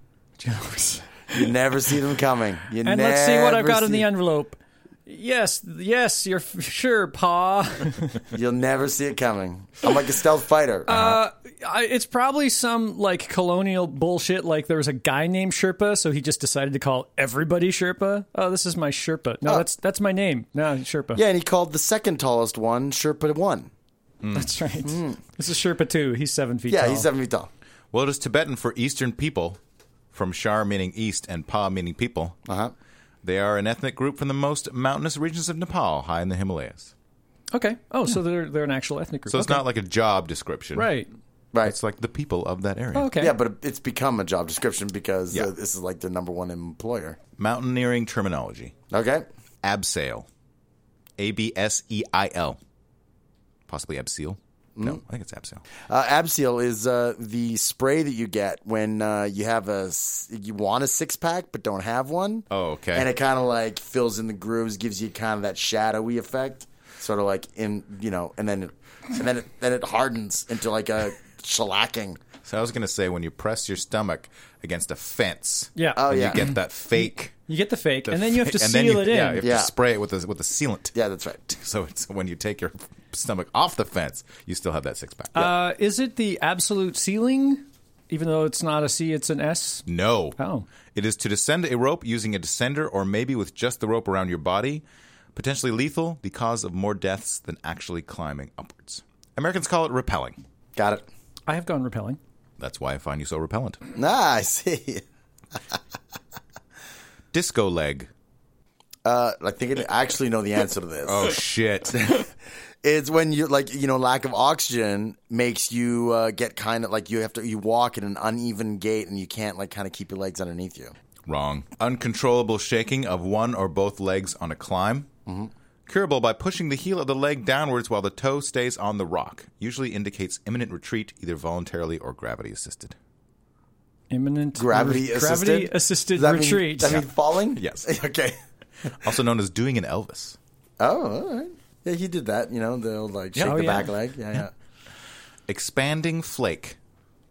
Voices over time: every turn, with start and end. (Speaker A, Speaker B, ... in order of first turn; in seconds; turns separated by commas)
Speaker A: 0.4-1.5, Speaker B: 1.3-4.1, Speaker A: 2.9-8.2, Speaker B: 8.3-11.0, Speaker A: 10.9-21.2, Speaker B: 21.1-23.7, Speaker C: 24.2-24.5, Speaker A: 24.3-27.1, Speaker B: 24.9-25.2, Speaker B: 26.7-27.5, Speaker C: 27.9-29.6, Speaker C: 30.1-32.4, Speaker B: 32.5-32.7, Speaker C: 33.2-36.9, Speaker A: 37.5-39.6, Speaker C: 39.3-40.9, Speaker A: 40.8-41.1, Speaker C: 41.6-43.2, Speaker A: 42.9-43.4, Speaker B: 43.2-47.2, Speaker C: 47.4-48.8, Speaker B: 48.9-49.2, Speaker C: 49.6-50.3, Speaker C: 51.2-52.6, Speaker C: 53.7-55.6, Speaker B: 55.9-72.2, Speaker C: 62.5-63.1, Speaker C: 72.5-77.3, Speaker A: 75.8-76.5, Speaker B: 76.0-76.5, Speaker A: 77.5-79.4, Speaker C: 78.1-80.9, Speaker B: 79.4-79.7, Speaker B: 80.9-81.4, Speaker C: 81.5-85.5, Speaker A: 85.3-89.9, Speaker C: 89.9-90.4, Speaker A: 90.4-90.7, Speaker C: 90.9-94.8, Speaker C: 95.3-100.4, Speaker B: 100.8-101.0, Speaker A: 101.5-102.2, Speaker C: 102.6-103.8, Speaker B: 104.0-105.0, Speaker C: 107.3-108.1, Speaker B: 109.0-111.4, Speaker C: 111.0-112.2, Speaker B: 111.9-112.3, Speaker B: 112.8-120.9, Speaker C: 121.3-125.1, Speaker B: 125.3-125.5, Speaker C: 125.9-133.0, Speaker A: 134.1-137.0, Speaker B: 134.6-138.9, Speaker C: 136.9-137.9, Speaker C: 139.0-140.4, Speaker B: 140.8-144.5, Speaker A: 143.4-143.9, Speaker C: 145.5-146.8